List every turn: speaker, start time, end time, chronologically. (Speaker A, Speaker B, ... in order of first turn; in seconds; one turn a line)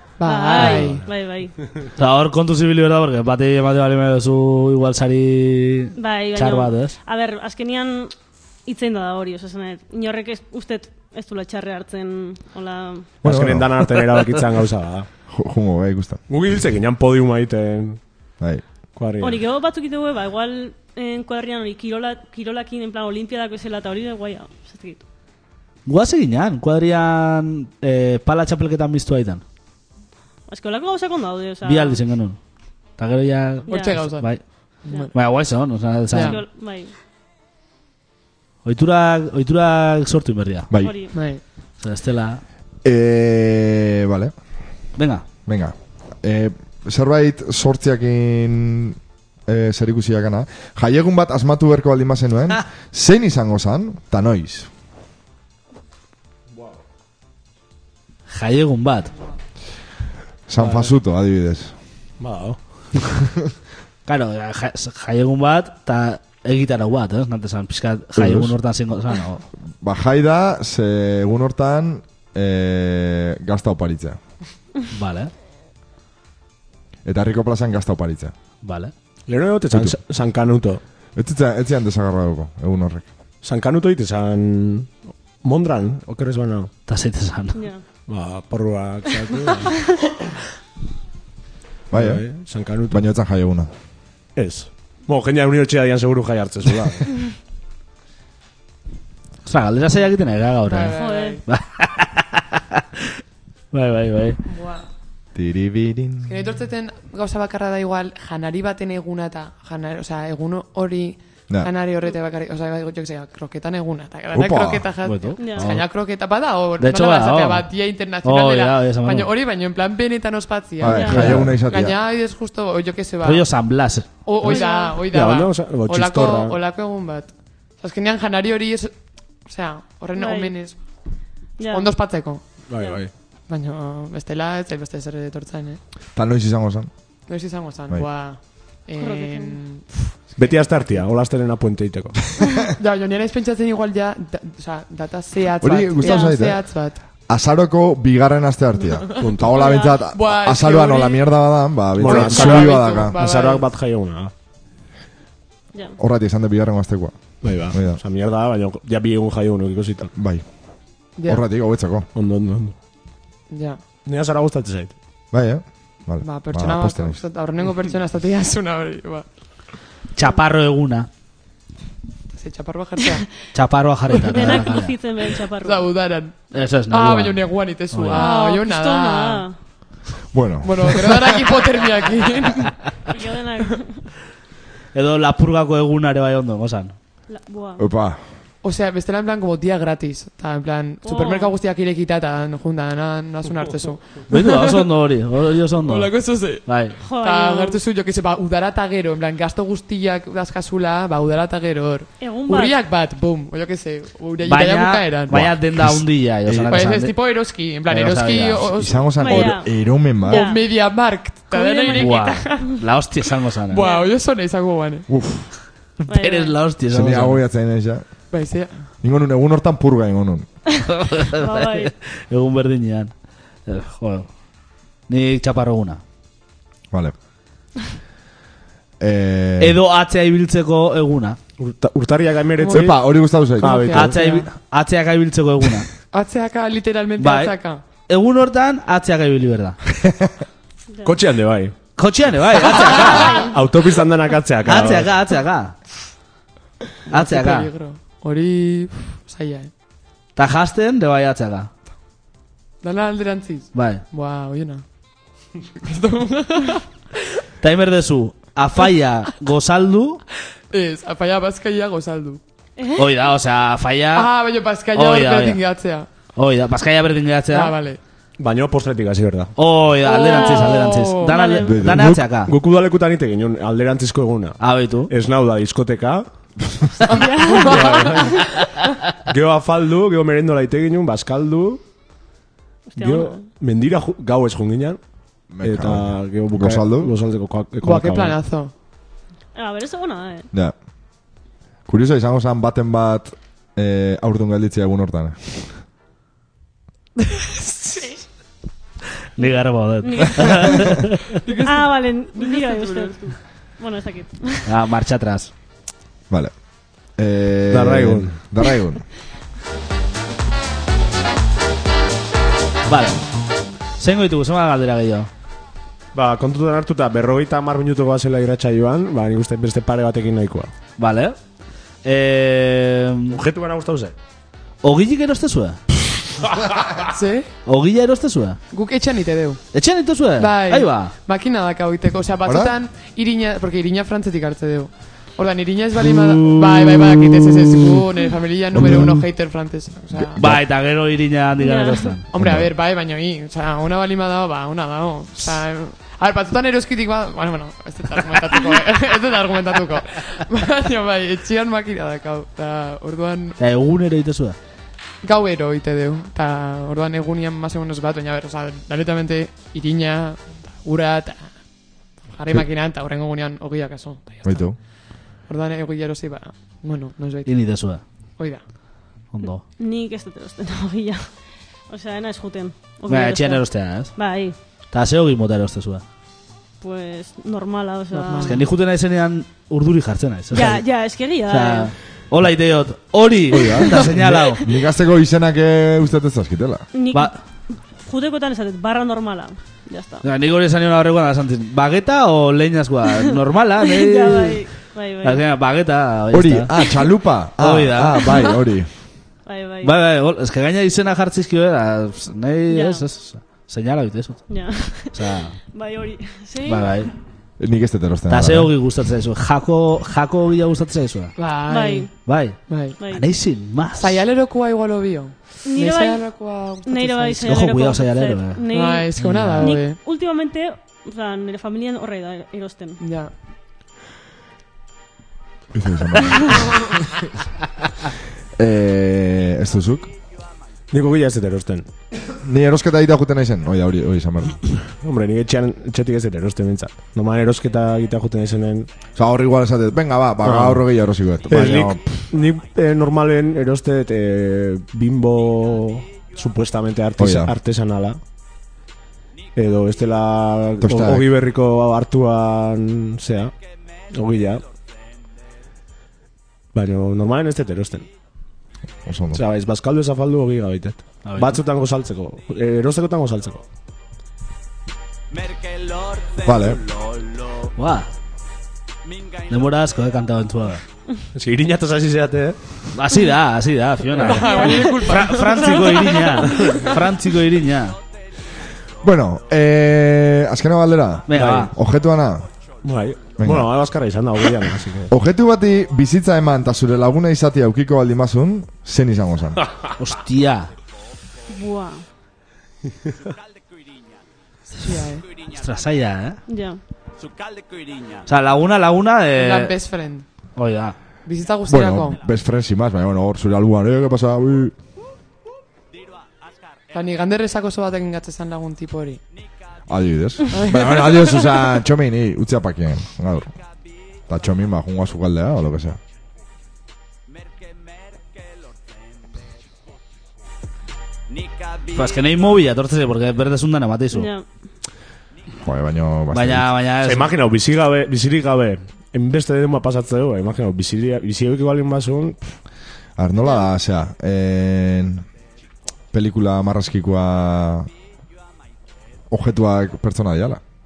Speaker A: 0.2-1.0
Speaker B: 0.3-1.7
Speaker C: 2.0-7.0
Speaker B: 6.0-8.1
Speaker B: 8.7-13.1
Speaker D: 13.2-15.1
Speaker E: 13.2-13.8
Speaker E: 15.3-16.2
Speaker D: 16.3-18.0
Speaker E: 18.4-18.6
Speaker D: 18.9-19.4
Speaker B: 19.2-25.0
Speaker C: 25.9-29.4
Speaker B: 30.5-32.0
Speaker C: 31.6-32.4
Speaker C: 33.0-36.4
Speaker B: 33.7-34.0
Speaker A: 33.7-34.3
Speaker A: 34.8-35.1
Speaker A: 36.1-36.4
Speaker B: 36.2-36.9
Speaker C: 38.6-40.7
Speaker E: 40.7-41.0
Speaker B: 40.8-41.1
Speaker A: 41.1-41.4
Speaker C: 41.8-42.4
Speaker E: 42.8-44.4
Speaker C: 45.0-45.2
Speaker E: 45.5-54.7
Speaker C: 58.3-59.1
Speaker E: 60.5-61.7
Speaker D: 60.6-60.9
Speaker D: 62.2-63.2
Speaker C: 64.1-69.4
Speaker E: 68.2-68.5
Speaker E: 69.8-74.2
Speaker C: 74.9-75.3
Speaker E: 77.0-78.3
Speaker C: 78.6-78.9
Speaker D: 79.3-80.8
Speaker E: 79.7-80.0
Speaker E: 81.2-83.0
Speaker D: 83.4-86.7
Speaker C: 86.9-87.6
Speaker B: 87.5-87.8
Speaker D: 88.1-89.8
Speaker E: 91.9-92.3
Speaker D: 91.9-93.0
Speaker E: 92.9-93.7
Speaker D: 94.3-97.0
Speaker C: 99.5-102.8
Speaker A: 100.7-101.4
Speaker B: 100.9-101.4
Speaker C: 103.7-104.4
Speaker A: 104.5-104.9
Speaker E: 105.3-106.5
Speaker A: 106.2-123.5
Speaker E: 114.3-114.9
Speaker C: 115.0-115.9
Speaker B: 115.4-115.7
Speaker C: 116.8-117.7
Speaker C: 118.2-119.3
Speaker E: 120.8-122.0
Speaker B: 120.9-121.2
Speaker C: 121.1-121.5
Speaker C: 123.2-124.1
Speaker A: 124.3-128.9
Speaker B: 124.4-125.0
Speaker D: 125.1-126.6
Speaker A: 129.4-130.8
Speaker B: 130.2-130.5
Speaker B: 131.6-131.9
Speaker A: 131.7-132.4
Speaker D: 132.7-133.1
Speaker A: 133.5-135.8
Speaker E: 136.2-136.9
Speaker A: 137.3-141.0
Speaker B: 139.0-139.6
Speaker D: 140.4-142.3
Speaker A: 142.6-147.0
Speaker E: 145.6-153.2
Speaker B: 146.0-146.3
Speaker D: 149.2-149.6
Speaker A: 149.2-151.4
Speaker B: 149.5-150.0
Speaker D: 152.0-154.3
Speaker A: 152.0-153.7
Speaker E: 156.0-158.0
Speaker D: 157.4-160.1
Speaker E: 160.2-160.4
Speaker A: 161.2-161.4
Speaker E: 161.2-162.1
Speaker D: 162.1-162.8
Speaker A: 163.5-163.8
Speaker D: 164.1-164.9
Speaker E: 165.3-167.2
Speaker A: 166.2-169.2
Speaker C: 170.2-171.1
Speaker A: 172.3-173.3
Speaker C: 173.5-174.9
Speaker A: 174.2-174.8
Speaker B: 174.3-175.9
Speaker A: 175.6-179.4
Speaker C: 176.5-178.3
Speaker B: 178.1-179.6
Speaker E: 180.3-181.2
Speaker A: 180.6-182.8
Speaker B: 183.1-184.1
Speaker C: 184.9-186.9
Speaker B: 187.3-187.9
Speaker E: 187.8-188.2
Speaker A: 188.6-194.7
Speaker B: 191.0-191.5
Speaker C: 194.3-197.0
Speaker A: 195.8-205.5
Speaker B: 197.1-197.8
Speaker B: 202.2-202.8
Speaker C: 204.5-208.7
Speaker E: 205.3-206.9
Speaker A: 206.7-209.6
Speaker E: 208.7-210.5
Speaker B: 209.2-210.8
Speaker A: 210.2-212.8
Speaker B: 211.5-212.7
Speaker C: 211.9-213.8
Speaker A: 213.7-215.1
Speaker B: 213.8-214.1
Speaker E: 215.1-215.5
Speaker C: 216.0-217.4
Speaker B: 216.1-216.6
Speaker E: 216.9-218.1
Speaker A: 218.3-218.8
Speaker E: 219.0-220.5
Speaker C: 220.9-223.1
Speaker B: 221.4-221.9
Speaker C: 223.7-224.3
Speaker C: 225.1-226.0
Speaker E: 229.0-229.8
Speaker C: 229.6-231.4
Speaker D: 231.6-233.0
Speaker A: 232.6-232.9
Speaker E: 232.7-233.9
Speaker D: 233.6-234.2
Speaker A: 233.6-234.5
Speaker C: 233.9-235.9
Speaker A: 236.1-237.8
Speaker C: 237.2-237.6
Speaker C: 238.1-239.8
Speaker E: 240.0-240.3
Speaker D: 241.0-241.7
Speaker C: 242.0-243.4
Speaker D: 243.5-245.2
Speaker C: 244.7-245.8
Speaker A: 247.1-249.7
Speaker C: 247.1-247.7
Speaker C: 250.4-251.7
Speaker A: 252.8-254.8
Speaker C: 253.7-254.0
Speaker A: 255.8-256.9
Speaker C: 257.6-260.2
Speaker A: 260.7-262.4
Speaker B: 262.8-263.1
Speaker C: 263.0-264.3
Speaker A: 264.1-266.1
Speaker C: 264.9-265.6
Speaker C: 266.4-267.8
Speaker A: 267.5-268.0
Speaker D: 268.4-269.5
Speaker C: 269.6-272.5
Speaker A: 270.0-271.4
Speaker B: 270.1-271.7
Speaker E: 271.6-272.2
Speaker D: 271.9-276.2
Speaker C: 274.6-275.1
Speaker A: 277.1-278.3
Speaker B: 277.1-278.6
Speaker D: 277.7-278.3
Speaker D: 279.3-281.8
Speaker B: 282.9-283.5
Speaker D: 283.0-285.0
Speaker E: 285.5-287.1
Speaker D: 285.6-288.4
Speaker A: 287.8-288.7
Speaker B: 289.6-290.5
Speaker E: 291.9-295.7
Speaker A: 297.4-298.2
Speaker C: 299.4-301.4
Speaker B: 300.0-300.9
Speaker A: 301.4-303.1
Speaker B: 301.6-304.7
Speaker C: 304.7-305.5
Speaker E: 307.2-309.1
Speaker D: 307.7-308.4
Speaker C: 312.9-313.2
Speaker C: 314.0-315.3
Speaker D: 316.1-320.7
Speaker C: 321.0-321.4
Speaker C: 322.0-323.4
Speaker D: 323.3-324.1
Speaker C: 324.8-325.8
Speaker A: 327.1-327.5
Speaker C: 327.6-328.6
Speaker A: 328.7-329.6
Speaker C: 329.7-331.1
Speaker A: 330.4-340.4
Speaker E: 332.5-332.8
Speaker C: 336.1-337.6
Speaker E: 338.7-339.2
Speaker E: 340.2-340.6
Speaker C: 340.4-342.2
Speaker B: 341.6-342.1
Speaker A: 342.3-353.6
Speaker E: 342.4-342.7
Speaker C: 353.6-354.6
Speaker A: 355.2-361.6
Speaker A: 362.3-367.8
Speaker E: 364.4-364.8
Speaker C: 367.5-368.0
Speaker A: 368.4-368.6
Speaker C: 369.3-369.6
Speaker B: 369.8-373.6
Speaker C: 373.1-374.2
Speaker B: 374.1-374.6
Speaker C: 374.9-376.0
Speaker B: 376.8-378.6
Speaker A: 378.1-378.7
Speaker C: 378.4-380.9
Speaker B: 380.5-381.9
Speaker C: 381.5-384.6
Speaker E: 383.5-386.9
Speaker B: 386.9-390.2
Speaker C: 390.2-394.7
Speaker B: 393.8-395.4
Speaker C: 395.2-396.7
Speaker E: 396.3-398.9
Speaker C: 397.6-398.2
Speaker B: 399.5-399.9
Speaker C: 399.8-405.6
Speaker B: 402.7-403.0
Speaker B: 404.5-406.9
Speaker C: 406.7-407.1
Speaker E: 407.6-408.8
Speaker C: 408.3-411.3
Speaker A: 411.4-412.1
Speaker B: 411.7-412.1
Speaker C: 412.3-414.2
Speaker A: 412.7-413.0
Speaker A: 414.0-417.6
Speaker B: 415.6-416.2
Speaker B: 416.9-419.1
Speaker C: 417.5-418.6
Speaker A: 418.7-420.0
Speaker C: 419.2-419.7
Speaker B: 419.6-423.0
Speaker A: 423.0-423.3
Speaker E: 425.7-426.9
Speaker E: 428.6-430.1
Speaker D: 430.9-431.9
Speaker E: 432.4-434.7
Speaker D: 434.9-438.9
Speaker E: 439.1-442.3
Speaker D: 440.4-440.8
Speaker D: 441.5-448.2
Speaker E: 447.2-447.5
Speaker D: 449.6-453.6
Speaker E: 450.8-451.2
Speaker D: 454.1-454.6
Speaker D: 456.7-458.1
Speaker E: 459.1-459.4
Speaker D: 459.3-463.6
Speaker C: 461.2-461.6
Speaker E: 466.4-466.8
Speaker C: 467.8-468.1
Speaker C: 469.5-470.8
Speaker D: 471.4-472.6
Speaker C: 472.9-478.0
Speaker A: 474.2-476.9
Speaker B: 474.2-476.6
Speaker E: 479.0-482.5
Speaker C: 481.3-481.7
Speaker D: 481.3-481.7
Speaker D: 482.8-485.1
Speaker E: 483.4-483.7
Speaker E: 485.1-489.6
Speaker C: 490.0-490.7
Speaker B: 491.5-492.1
Speaker A: 494.7-495.3
Speaker C: 495.5-496.4
Speaker B: 496.5-496.8
Speaker C: 498.3-499.7
Speaker A: 499.3-500.3
Speaker C: 500.6-501.0
Speaker A: 501.3-502.2
Speaker E: 501.7-504.7
Speaker A: 506.9-509.2
Speaker E: 509.9-513.5
Speaker A: 510.5-511.4
Speaker E: 514.3-516.0
Speaker C: 521.9-524.3
Speaker B: 524.1-524.5
Speaker E: 525.6-526.7
Speaker C: 526.3-527.3
Speaker D: 527.0-532.6
Speaker E: 533.2-535.3
Speaker E: 536.1-537.9
Speaker E: 539.3-540.6